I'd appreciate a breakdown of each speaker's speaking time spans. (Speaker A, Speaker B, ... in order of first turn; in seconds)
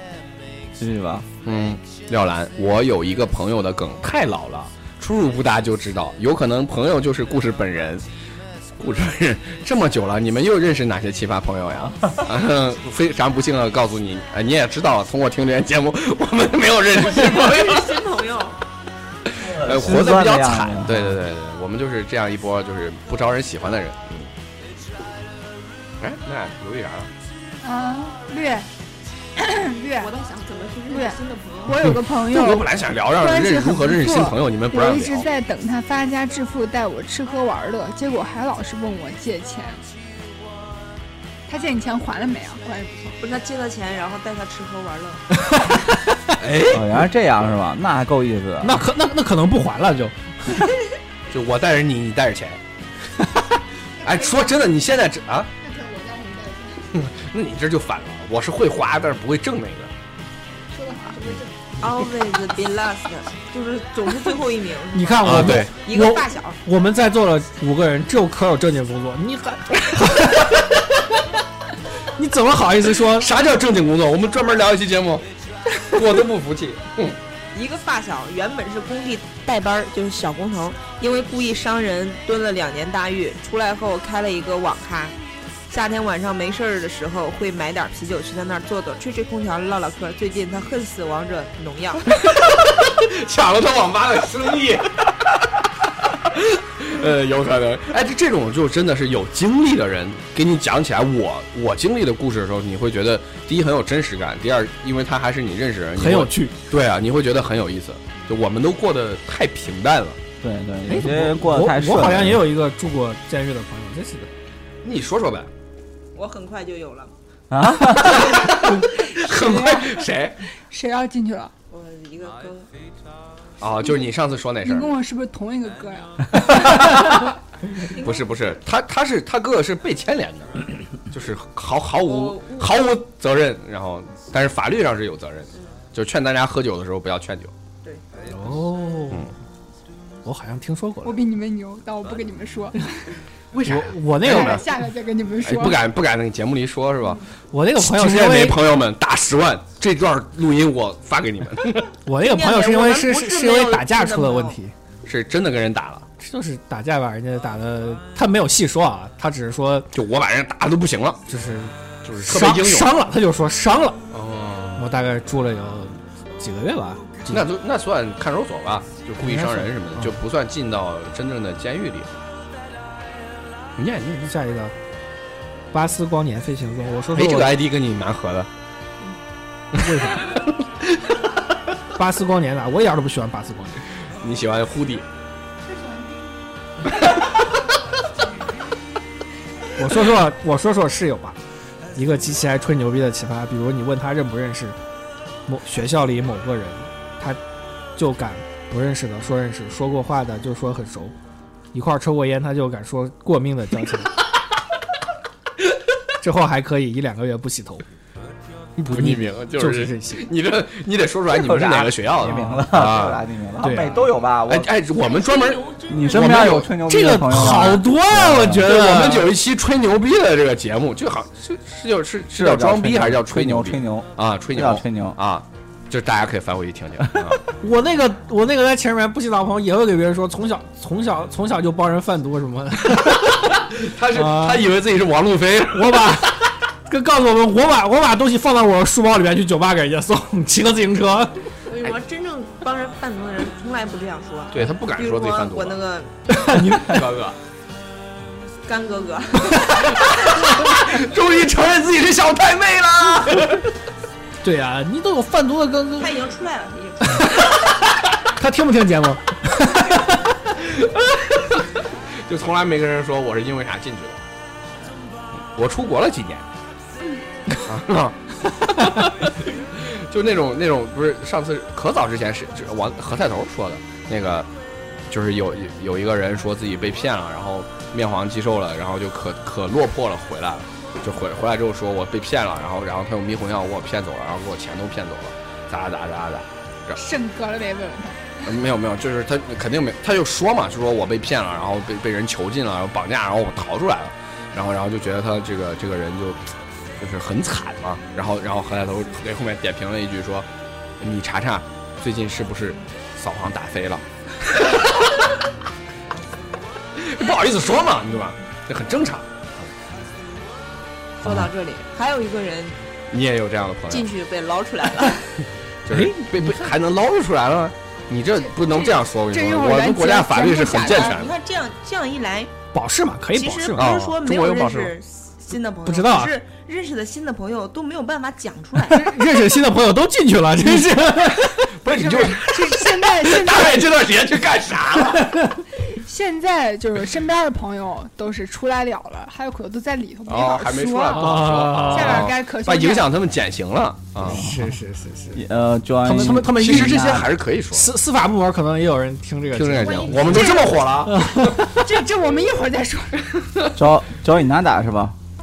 Speaker A: 0.8-1.3, 19.4-21.2, 46.6-48.8, 110.4-112.4, 117.5-118.3, 211.3-214.7, 215.9-218.7, 222.3-225.2, 311.2-311.5, 344.2-344.7, 345.3-347.3, 353.7-355.1
Speaker B: 1.4-8.1, 8.8-17.9, 19.3-24.3, 26.0-27.1, 31.9-35.3, 46.4-46.9, 51.3-52.6, 54.0-55.5, 56.9-59.9, 65.2-65.7, 73.1-75.2, 75.8-77.2, 92.1-95.5, 96.1-110.2, 114.8-115.5, 118.0-120.4, 123.6-124.9, 127.9-137.5, 143.5-144.6, 145.4-147.2, 147.8-151.9, 155.1-156.1, 159.9-161.2, 162.0-162.9, 164.1-164.9, 167.3-172.1, 173.8-174.3, 177.1-178.5, 179.7-181.2, 184.2-185.1, 186.9-187.5, 208.8-213.2, 214.4-216.7, 218.5-227.4, 233.0-236.2, 244.5-245.8, 246.7-247.4, 249.7-253.7, 260.5-264.2, 265.5-266.4, 267.5-274.5, 275.1-287.0, 288.4-300.5, 301.0-305.3, 306.9-309.6, 313.1-314.1, 315.8-321.3, 323.7-324.9, 330.9-335.4, 340.2-344.5, 346.2-347.9, 349.5-351.3
Speaker C: 16.9-18.6, 30.0-31.9, 43.2-45.2, 61.8-66.6, 77.5-85.1, 85.7-92.1, 116.1-117.1, 121.7-122.7, 127.9-128.6, 132.0-132.8, 152.1-154.6, 215.0-216.4, 241.7-246.1, 248.7-250.2, 256.0-257.5, 311.2-312.8, 313.9-315.3, 320.7-322.5, 323.3-329.2
Speaker D: 27.6-28.7, 29.4-30.1, 30.9-39.8, 41.5-43.2, 55.6-56.9, 60.7-61.5, 119.2-120.0, 120.7-121.5, 124.6-127.2, 141.0-143.1, 144.2-145.8, 286.9-288.4, 319.3-321.1, 331.9-334.1, 335.9-343.1, 350.0-350.9, 351.6-353.3
Speaker E: 45.5-46.4, 48.6-50.7, 64.9-70.6, 72.1-73.3, 106.0-106.5, 110.9-114.3, 138.3-139.3, 140.2-141.2, 143.6-144.6, 147.5-148.6, 152.0-154.7, 156.2-159.9, 161.3-164.0, 164.8-167.4, 169.2-170.1, 174.2-174.7, 175.7-177.6, 179.7-180.4, 181.9-183.8, 189.8-191.4, 191.9-194.8, 195.4-197.4, 197.9-201.1, 201.7-204.2, 206.2-207.8, 208.9-210.3, 212.2-212.7, 213.6-214.1, 216.7-219.3, 227.6-234.7, 235.7-241.3, 246.3-247.0, 254.4-256.2, 257.1-257.5, 258.2-260.3, 315.9-316.5, 322.7-323.9, 325.9-326.3, 328.9-331.7, 335.1-335.6, 341.1-342.3, 344.2-345.4, 346.0-350.5, 351.1-351.6